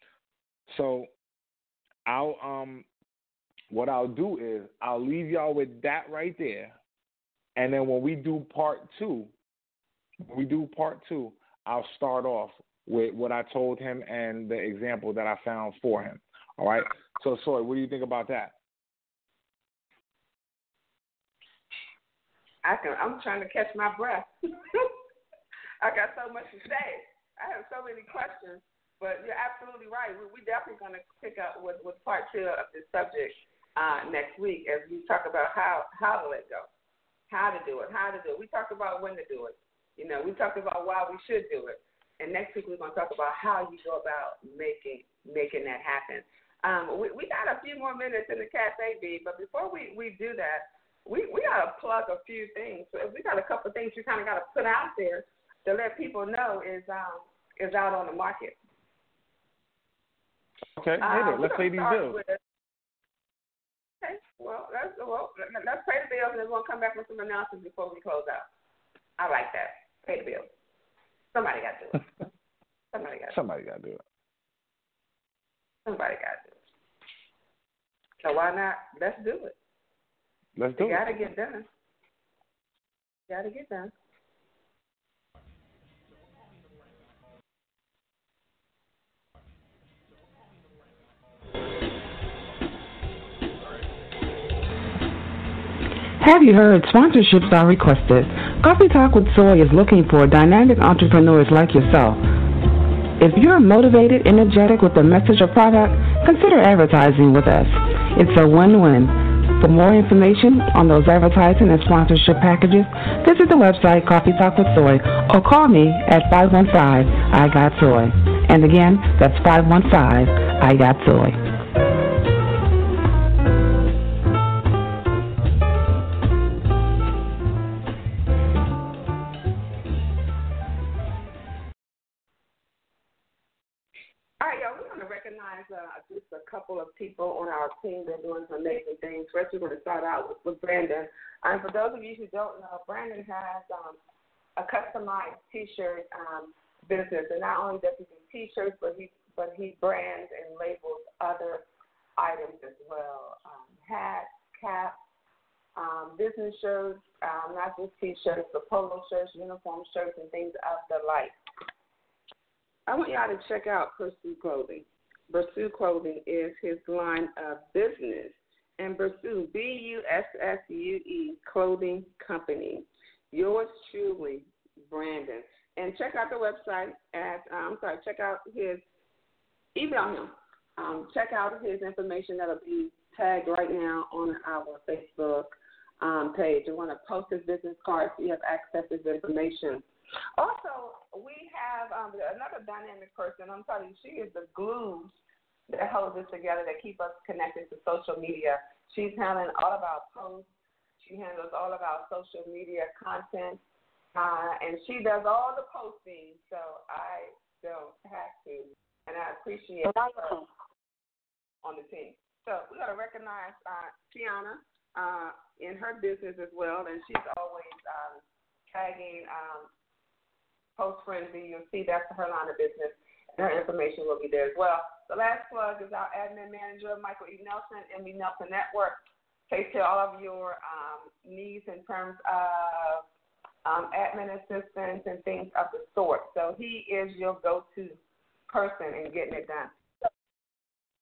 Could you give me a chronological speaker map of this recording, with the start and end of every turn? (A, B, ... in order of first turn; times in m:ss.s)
0:00.7-0:01.1 A
0:02.0-0:02.8 A
0:03.7-0:06.7 A
0:07.6-0:09.3 A
0:10.2-0:18.5 A
0:22.6-0:24.9 B
0:25.8-0:36.7 B
0:37.3-0:58.6 B
1:00.8-1:02.2 A
1:01.0-1:02.4 B
1:04.0-1:08.5 B
1:09.2-1:10.5 B
1:11.3-1:12.1 B
1:12.9-1:13.4 B
1:13.3-1:14.0 A
1:15.8-1:16.6 B
1:18.2-1:19.5 B
1:20.6-1:21.0 A
1:20.8-1:21.7 B
1:23.3-1:23.9 B
1:36.2-1:42.2 C
1:43.2-2:01.4 C
2:14.4-2:24.0 B
2:24.6-2:31.6 B
2:32.2-2:35.0 B
2:35.8-2:41.4 B
2:42.9-2:58.8 B
2:59.7-3:09.8 B
3:10.4-3:15.1 B
3:15.7-3:23.6 B
3:24.1-3:30.4 B
3:31.6-3:39.7 B
3:40.8-3:53.0 B
3:53.6-3:59.7 B